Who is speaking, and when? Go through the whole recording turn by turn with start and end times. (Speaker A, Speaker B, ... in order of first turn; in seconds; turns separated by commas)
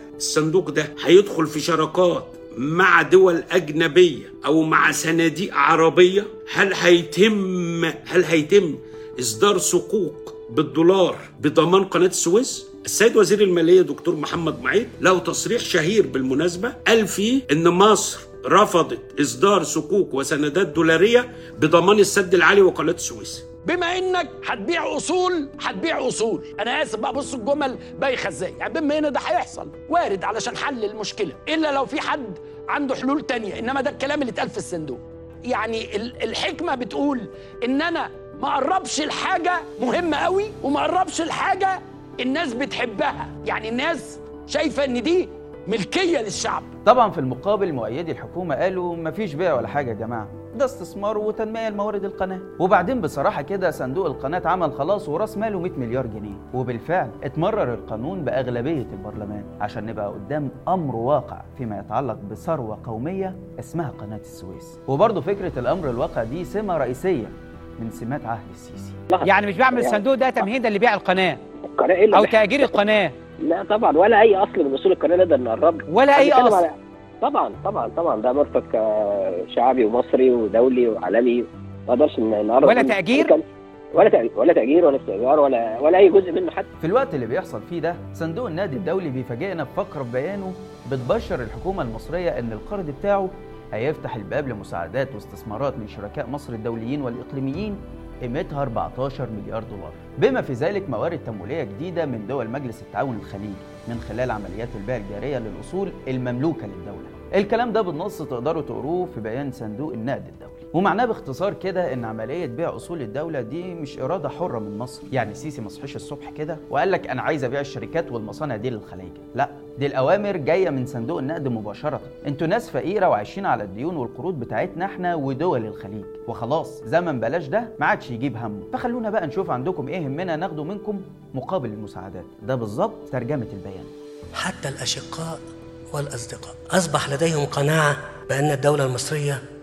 Speaker A: 0.2-23.5, Speaker B: 23.6-46.7, Speaker C: 46.8-69.0, Speaker D: 69.1-70.0, Speaker E: 69.2-71.4, Speaker D: 71.7-72.7, Speaker E: 72.1-73.1, Speaker D: 73.4-83.4, Speaker E: 75.9-76.7, Speaker E: 82.6-83.3, Speaker D: 83.9-86.7, Speaker C: 86.8-133.9, Speaker F: 134.3-139.4